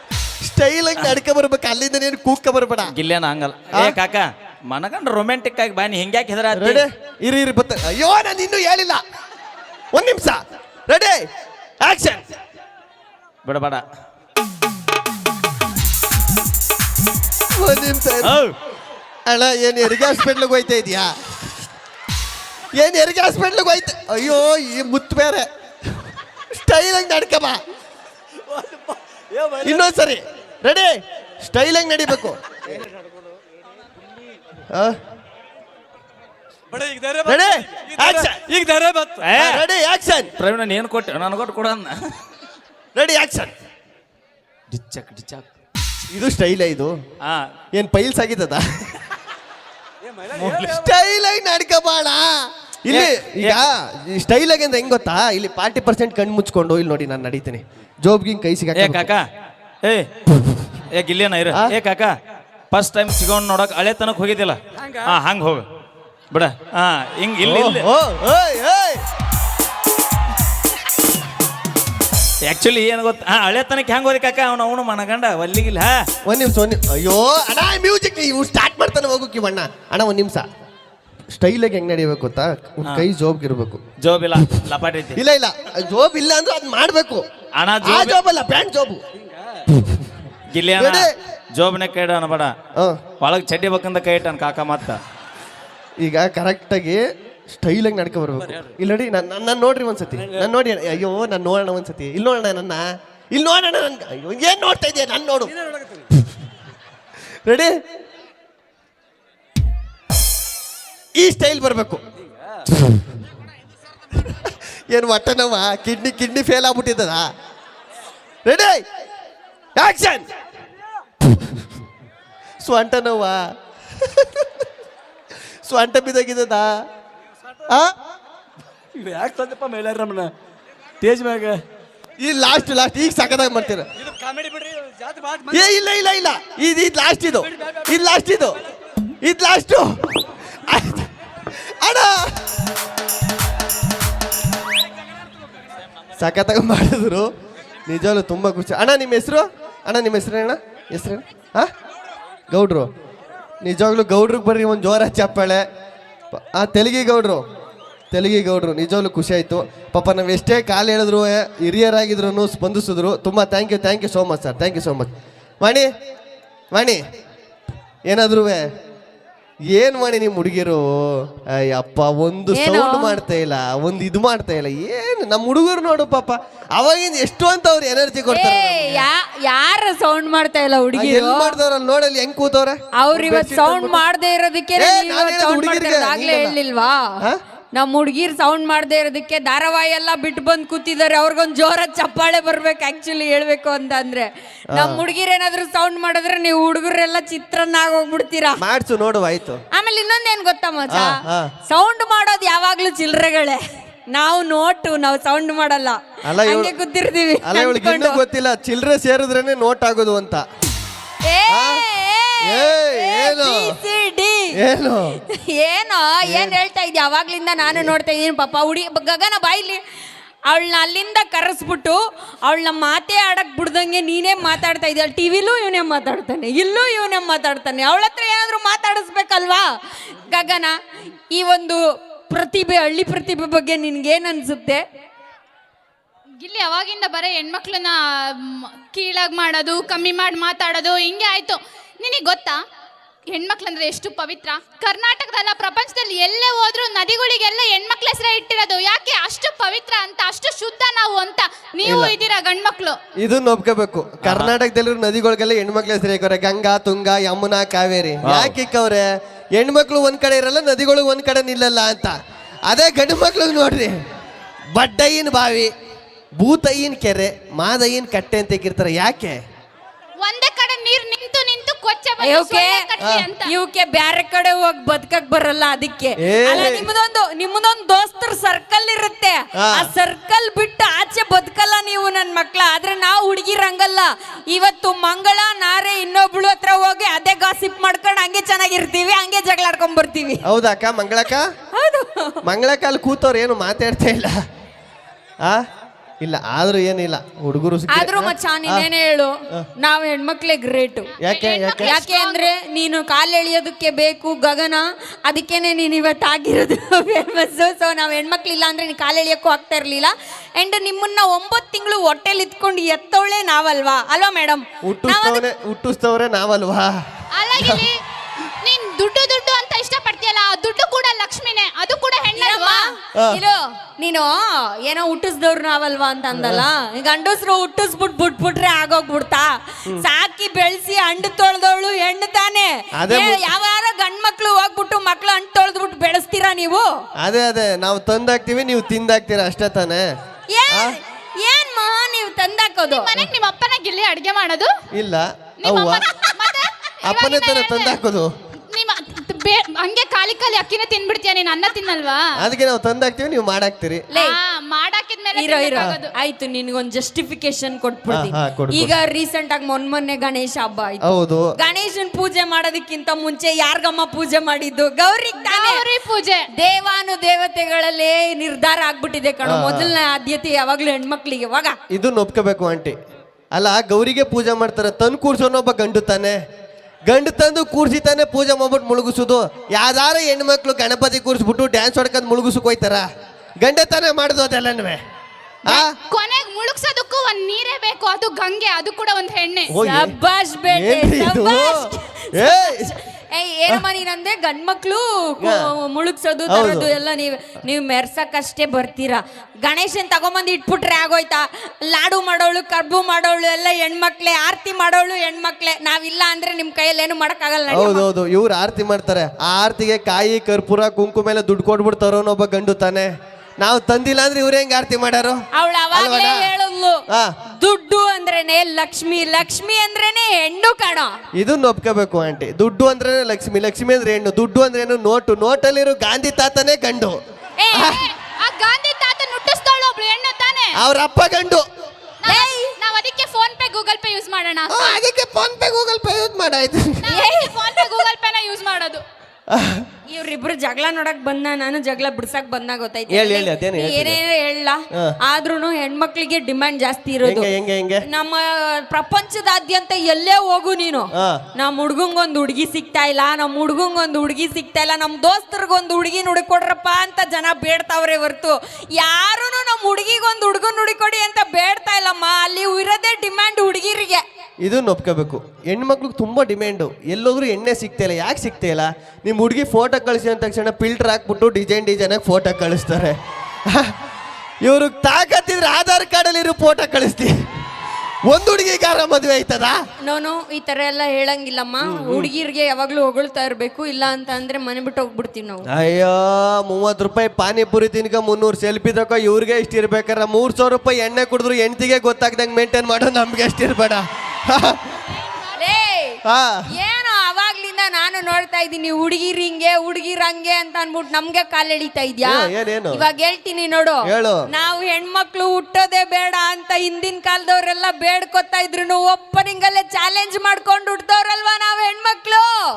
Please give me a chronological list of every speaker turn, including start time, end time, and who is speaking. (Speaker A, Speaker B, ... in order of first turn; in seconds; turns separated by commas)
Speaker A: 0.4-2.9, Speaker B: 2.9-6.8, Speaker A: 6.5-9.0, Speaker A: 9.9-11.2, Speaker A: 11.8-12.3, Speaker B: 13.4-13.8, Speaker A: 17.6-18.4, Speaker B: 18.2-18.5, Speaker A: 19.3-21.1, Speaker A: 22.7-27.6, Speaker C: 28.5-29.9, Speaker A: 29.6-32.4, Speaker A: 34.7-35.0, Speaker C: 36.7-39.3, Speaker A: 37.3-38.4, Speaker B: 39.2-39.6, Speaker A: 39.4-40.3, Speaker B: 40.4-42.0, Speaker A: 43.0-43.5, Speaker B: 44.7-45.5, Speaker A: 46.1-46.9, Speaker A: 47.8-48.6, Speaker C: 50.0-51.0, Speaker A: 50.5-52.3, Speaker A: 52.9-59.1, Speaker B: 52.9-53.6, Speaker B: 58.8-59.3, Speaker B: 60.8-62.1, Speaker B: 62.7-65.7, Speaker C: 64.8-65.2, Speaker B: 66.3-67.8, Speaker A: 67.4-69.0, Speaker B: 72.5-76.0, Speaker A: 76.3-80.5, Speaker A: 81.3-83.8, Speaker B: 84.0-85.2, Speaker A: 85.2-87.3, Speaker B: 87.6-88.2, Speaker A: 87.8-89.0, Speaker C: 89.2-89.6, Speaker B: 90.5-92.5, Speaker A: 90.8-91.1, Speaker B: 93.2-95.0, Speaker A: 96.0-105.5, Speaker C: 100.2-100.5, Speaker C: 105.5-106.1, Speaker A: 107.5-107.7, Speaker A: 111.2-112.0, Speaker C: 112.3-112.6, Speaker A: 114.1-117.3, Speaker A: 118.5-118.9, Speaker A: 119.8-120.3, Speaker A: 121.2-121.6, Speaker A: 122.6-123.4, Speaker A: 124.0-124.7, Speaker A: 125.7-126.7, Speaker A: 127.7-127.9, Speaker C: 129.0-130.3, Speaker C: 131.0-131.6, Speaker A: 132.2-133.9, Speaker C: 134.0-135.8, Speaker A: 135.5-138.6, Speaker C: 137.4-138.0, Speaker A: 139.2-142.5, Speaker A: 146.2-147.3, Speaker A: 147.9-151.7, Speaker A: 152.5-152.9, Speaker A: 153.6-155.6, Speaker A: 156.3-157.4, Speaker A: 158.1-165.1, Speaker A: 165.6-165.9, Speaker A: 166.7-167.0, Speaker A: 168.1-168.7, Speaker A: 169.7-179.1, Speaker D: 172.5-173.2, Speaker D: 178.3-181.6, Speaker A: 180.9-184.0, Speaker D: 183.0-187.0, Speaker A: 184.8-186.6, Speaker D: 187.8-198.6, Speaker A: 194.7-195.0, Speaker A: 198.6-199.6, Speaker D: 199.7-203.6, Speaker A: 200.9-201.5, Speaker D: 204.1-208.2, Speaker A: 206.3-206.7, Speaker A: 207.4-210.4, Speaker D: 211.3-214.5, Speaker A: 211.5-211.8, Speaker A: 212.4-213.8, Speaker A: 214.6-215.2, Speaker D: 215.3-219.8, Speaker A: 216.2-216.6, Speaker A: 217.7-217.9, Speaker D: 220.5-229.6, Speaker D: 230.2-230.7, Speaker D: 231.3-234.8, Speaker E: 236.4-242.6, Speaker E: 243.3-253.0, Speaker A: 251.8-252.1, Speaker A: 253.2-259.1, Speaker B: 254.2-254.5, Speaker B: 258.2-258.5, Speaker A: 259.6-262.1, Speaker A: 262.7-263.9, Speaker A: 264.8-265.7, Speaker A: 266.4-269.4, Speaker E: 270.2-273.5, Speaker D: 272.2-272.8, Speaker A: 273.0-273.3, Speaker D: 273.4-290.4, Speaker A: 276.2-276.9, Speaker A: 279.6-279.9, Speaker A: 290.5-291.5, Speaker D: 291.7-292.4, Speaker A: 292.4-294.4, Speaker A: 296.2-298.9, Speaker D: 297.9-301.1, Speaker A: 301.2-302.0, Speaker E: 301.2-302.5, Speaker D: 301.8-315.4, Speaker A: 314.9-316.9, Speaker E: 317.4-318.0, Speaker A: 317.6-317.9, Speaker E: 318.6-322.8, Speaker D: 322.4-324.3, Speaker A: 323.2-323.4, Speaker D: 324.8-336.9, Speaker A: 326.3-326.7, Speaker A: 333.0-333.4, Speaker A: 337.2-340.0, Speaker D: 340.5-343.1, Speaker E: 342.9-344.7, Speaker A: 344.9-346.1, Speaker E: 345.6-348.0, Speaker A: 347.1-348.3, Speaker E: 348.7-352.3, Speaker A: 352.4-354.1, Speaker E: 354.1-356.1, Speaker D: 355.4-365.8, Speaker A: 358.1-358.9, Speaker A: 361.1-361.5, Speaker E: 365.4-366.5, Speaker D: 366.6-371.8, Speaker A: 369.4-369.9, Speaker A: 371.9-373.0, Speaker A: 373.6-376.4, Speaker A: 377.1-383.1, Speaker A: 383.6-385.0, Speaker A: 385.7-385.9, Speaker E: 385.7-389.7, Speaker A: 389.7-390.1, Speaker D: 389.8-408.1, Speaker A: 390.7-392.9, Speaker A: 395.4-395.7, Speaker A: 396.5-396.9, Speaker A: 407.7-415.4, Speaker D: 415.6-417.0, Speaker A: 415.9-416.5, Speaker A: 417.1-417.4, Speaker D: 417.6-421.1, Speaker A: 421.4-427.2, Speaker D: 427.6-428.0, Speaker A: 427.7-428.0, Speaker E: 427.8-430.8, Speaker A: 430.8-431.6, Speaker E: 432.2-435.0, Speaker D: 432.3-432.7, Speaker A: 434.7-437.1, Speaker E: 437.0-439.0, Speaker D: 437.1-437.9, Speaker A: 439.5-439.9, Speaker D: 440.1-447.5, Speaker A: 443.1-444.2, Speaker A: 447.2-448.1, Speaker D: 448.1-464.2, Speaker A: 464.6-473.9, Speaker A: 474.6-477.3, Speaker A: 478.3-479.8, Speaker D: 480.0-485.7, Speaker A: 481.8-482.3, Speaker A: 485.7-495.0, Speaker E: 495.2-495.6, Speaker D: 495.6-496.2, Speaker A: 496.2-496.6, Speaker D: 496.7-512.5, Speaker A: 502.2-503.0, Speaker A: 504.1-504.4